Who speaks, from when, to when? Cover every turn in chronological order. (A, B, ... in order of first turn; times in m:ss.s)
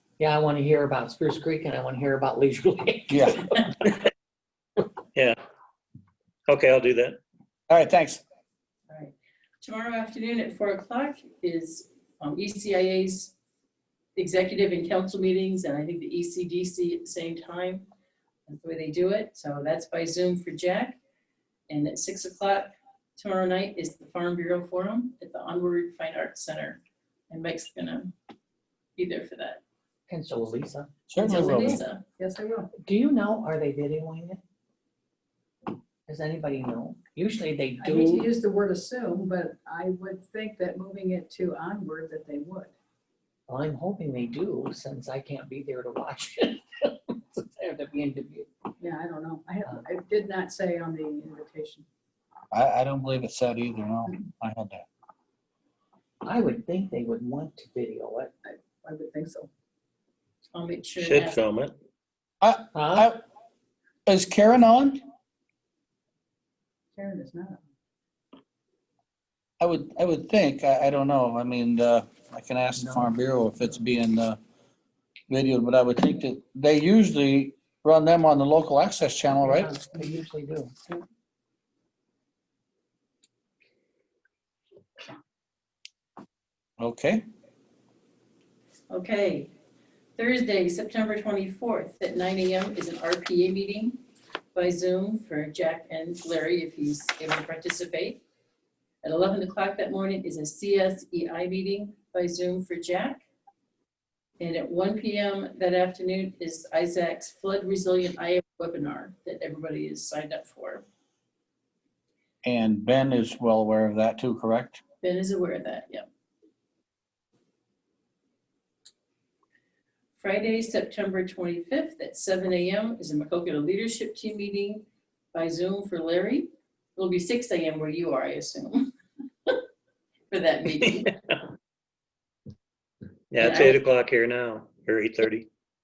0:00.2-0:03.6 A
0:03.1-0:03.6 B
0:06.5-0:07.2 C
0:07.7-0:08.2 B
0:08.9-0:13.3 D
0:14.2-0:17.9 D
0:18.5-0:21.0 D
0:21.7-0:28.1 D
0:29.0-0:29.6 D
0:30.1-0:30.9 A
0:31.1-0:31.8 B
0:31.2-0:32.0 D
0:32.2-0:32.7 E
0:32.8-0:34.4 A
0:36.1-0:38.3 A
0:37.8-0:42.7 E
0:43.5-0:48.5 A
0:48.8-0:51.8 E
0:52.5-0:54.8 B
0:56.2-0:58.3 A
0:58.4-0:59.5 E
1:00.5-1:01.4 D
1:01.0-1:01.8 C
1:02.4-1:03.2 B
1:02.7-1:03.1 A
1:04.1-1:05.0 B
1:07.0-1:07.6 E
1:09.6-1:14.4 B
1:12.8-1:13.1 A
1:15.3-1:19.7 B
1:19.3-1:20.8 A
1:26.8-1:27.2 B
1:28.9-1:29.5 D
1:30.2-1:34.0 D
1:34.5-1:38.2 D
1:39.0-1:43.2 D
1:44.4-1:50.8 D
1:52.4-1:54.8 B
1:55.0-1:56.1 D
2:00.2-2:08.9 D
2:10.3-2:11.1 D
2:11.0-2:11.3 C
2:13.3-2:15.5 C
2:13.4-2:13.8 D